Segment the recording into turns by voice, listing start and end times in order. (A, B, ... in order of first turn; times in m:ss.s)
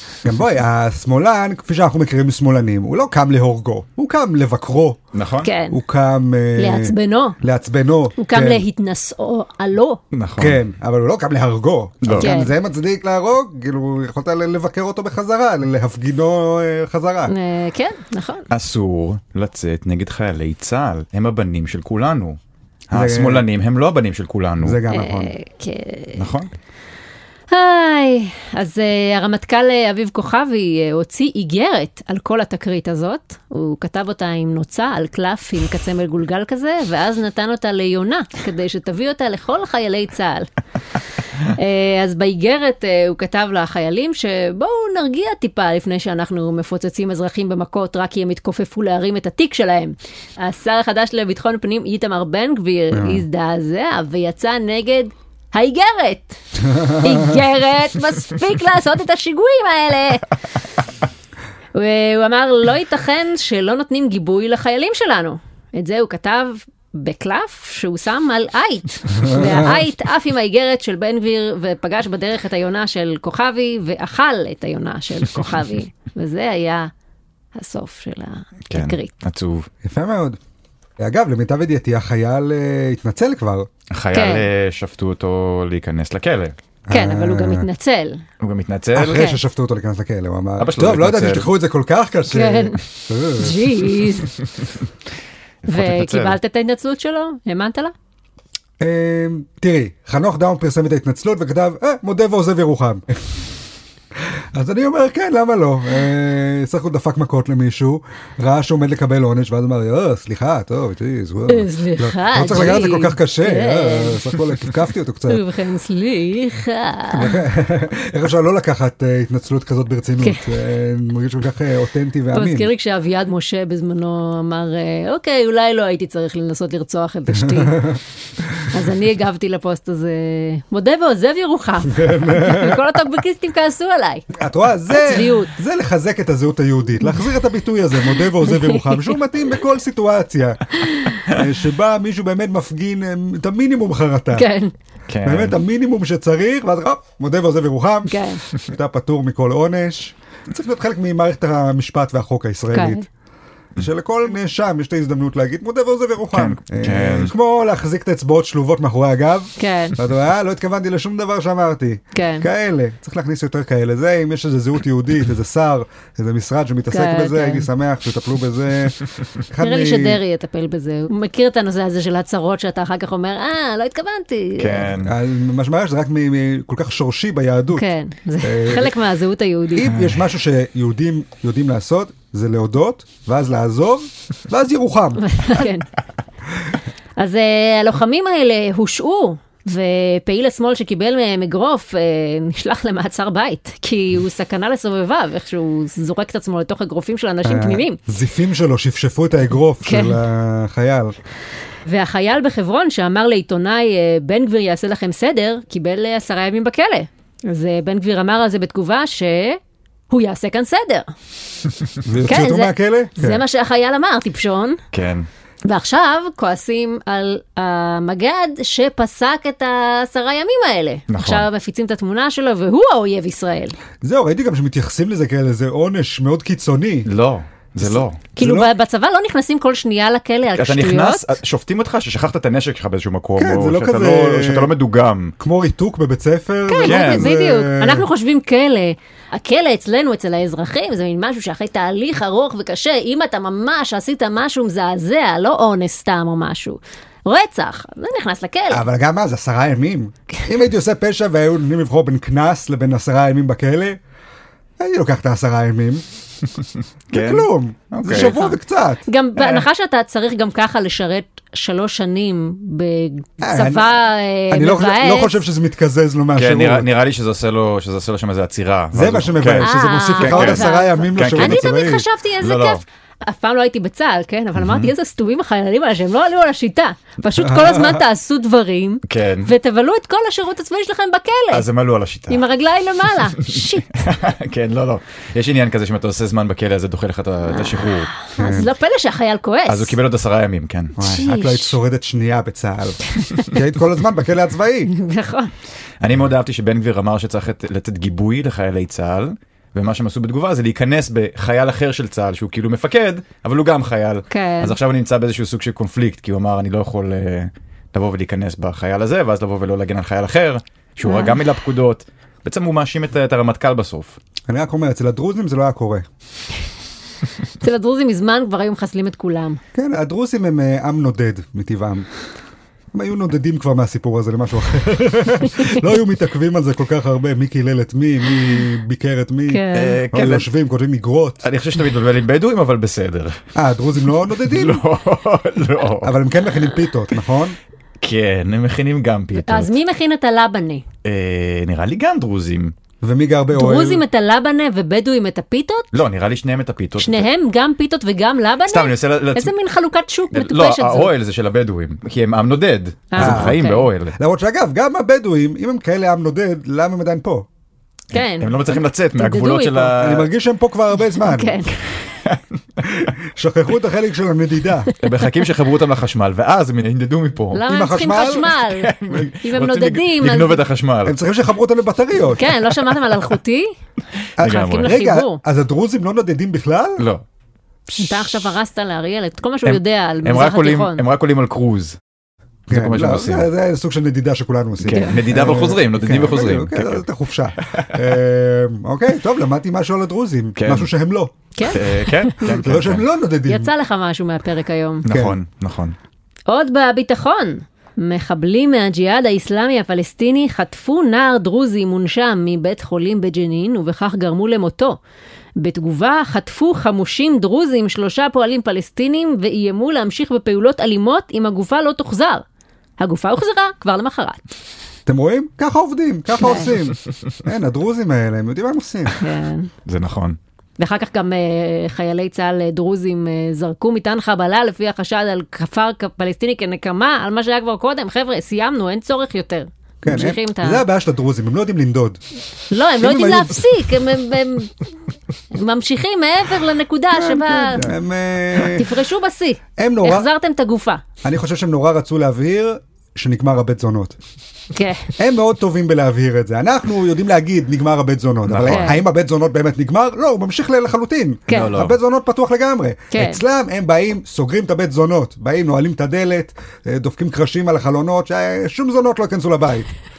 0:00.2-0:05.0 A
0:05.1-0:05.5 B
0:05.4-0:05.8 C
0:05.7-0:08.6 A
0:06.6-0:07.4 C
0:08.2-0:10.0 C
0:10.1-0:10.6 B
0:10.4-0:17.3 A
0:12.0-0:12.3 B
0:12.2-0:12.5 C
0:17.3-0:18.5 C
0:18.5-0:22.4 B
0:22.9-0:24.8 B
0:22.9-0:23.4 A
0:24.6-0:25.3 A
0:24.9-0:26.2 C
0:26.2-0:26.5 B
0:27.5-0:40.5 C
0:41.5-1:00.3 C
0:52.9-0:53.2 A
0:56.8-0:57.1 A
1:01.7-1:16.9 C
1:09.2-1:09.8 A
1:17.5-1:19.1 C
1:18.7-1:19.7 B
1:19.8-1:20.4 A
1:21.0-1:23.7 A
1:23.9-1:26.5 B
1:24.1-1:24.4 C
1:26.9-1:27.7 A
1:26.9-1:28.2 C
1:28.4-1:29.3 B
1:28.9-1:34.0 A
1:29.0-1:29.4 C
1:30.6-1:31.5 B
1:32.3-1:32.8 C
1:33.3-1:34.3 C
1:35.6-1:36.4 B
1:35.7-1:37.9 C
1:38.8-1:43.2 A
1:44.5-1:55.4 A
1:51.5-1:54.2 C
1:55.3-1:57.4 C
1:57.1-2:02.7 A
2:00.2-2:00.5 C
2:02.3-2:08.0 C
2:07.3-2:08.0 A
2:08.6-2:14.3 C
2:11.8-2:12.8 A
2:14.3-2:24.5 A
2:14.9-2:15.5 C
2:18.4-2:19.1 C
2:24.3-2:24.7 C
2:25.1-2:25.6 B
2:25.2-2:33.0 A
2:28.1-2:28.4 C
2:32.7-2:33.0 C
2:33.8-2:50.2 A
2:36.3-2:37.3 B
2:39.6-2:40.0 C
2:42.1-2:42.5 C
2:46.9-2:47.7 C
2:49.6-2:54.9 C
2:54.6-2:55.1 B
2:55.0-2:57.9 A
2:57.7-2:59.9 C
2:58.4-2:58.9 A
2:59.7-3:05.6 A
3:05.2-3:05.9 C
3:07.2-3:18.0 C
3:17.4-3:21.2 A
3:19.8-3:20.2 C
3:21.8-3:31.1 C
3:32.0-3:33.4 A
3:32.3-3:34.8 C
3:34.9-3:35.3 B
3:35.6-3:43.7 C
3:41.1-3:41.5 B
3:44.0-3:47.1 A
3:47.0-3:48.2 B
3:47.8-3:48.7 A
3:48.4-3:51.3 C
3:50.6-3:55.3 B
3:53.4-3:54.7 A
3:55.4-3:58.1 A
3:56.7-4:08.8 C
3:56.8-3:57.3 B
4:08.7-4:14.0 A
4:14.8-4:16.0 A
4:17.1-4:18.4 B
4:17.1-4:19.0 A
4:18.1-4:25.4 C
4:23.4-4:23.9 A
4:24.5-4:26.9 A
4:26.3-4:32.8 B
4:28.9-4:32.0 A
4:29.6-4:41.6 C
4:34.6-4:34.9 B
4:37.4-4:38.0 A
4:39.1-4:39.5 B
4:41.5-4:42.4 B
4:42.3-4:44.0 C
4:43.4-4:48.1 B
4:47.6-4:50.0 C
4:48.4-4:48.7 A
4:49.7-4:51.0 B
4:51.0-4:54.9 A
4:51.0-4:51.7 C
4:53.2-4:53.5 C
4:54.9-4:55.5 C
4:56.0-5:14.2 B
5:04.3-5:04.8 C
5:11.0-5:11.4 C
5:14.5-5:16.0 A
5:17.6-5:19.6 C
5:19.7-5:22.1 A
5:22.9-5:31.4 A
5:29.5-5:30.0 C
5:29.7-5:30.5 B
5:31.4-5:33.4 B
5:33.5-5:34.8 A
5:34.4-5:36.2 B
5:36.0-5:37.6 A
5:38.0-5:39.7 B
5:39.4-5:40.8 C
5:41.0-5:42.7 B
5:43.0-5:44.0 A
5:43.5-5:45.9 C
5:45.9-5:47.3 B
5:47.0-5:51.1 C
5:48.6-5:49.5 B
5:50.3-5:54.2 B
5:53.1-5:53.9 C
5:53.2-5:53.6 A
5:54.2-5:57.5 A
5:58.1-6:00.0 C
5:58.1-6:00.3 B
5:59.9-6:01.6 A
6:01.2-6:01.7 C
6:02.1-6:02.4 B
6:02.8-6:04.9 A
6:05.0-6:07.6 B
6:07.5-6:10.6 C
6:07.7-6:08.5 A
6:08.6-6:11.2 B
6:11.0-6:12.6 A
6:12.4-6:13.7 C
6:14.4-6:17.0 A
6:14.4-6:14.9 B
6:14.4-6:15.4 C
6:17.0-6:17.2 B
6:17.9-6:21.0 C
6:19.6-6:22.0 B
6:22.7-6:23.5 B
6:22.7-6:31.3 A
6:24.8-6:27.0 B
6:24.9-6:25.2 C
6:27.6-6:28.0 B
6:30.6-6:30.9 B
6:31.5-6:32.6 C
6:31.7-6:33.0 B
6:32.6-6:33.7 A
6:33.4-6:35.0 C
6:35.0-6:36.0 B
6:35.0-6:35.4 A
6:36.5-6:45.0 C
6:45.6-6:52.4 C
6:53.0-6:54.4 C
6:55.0-6:59.1 A
6:56.4-6:56.7 C
6:59.2-6:59.7 C
6:59.8-7:00.4 B
7:00.8-7:10.8 C
7:10.0-7:12.2 A
7:12.7-7:14.7 C
7:13.0-7:13.6 A
7:15.5-7:17.9 C
7:17.1-7:18.9 A
7:18.6-7:21.0 C
7:19.8-7:20.3 A
7:21.2-7:24.2 A
7:24.7-7:25.1 C
7:25.2-7:39.9 A
7:28.5-7:29.0 B
7:28.7-7:29.0 C
7:31.5-7:31.8 C
7:31.5-7:32.0 B
7:33.1-7:33.4 C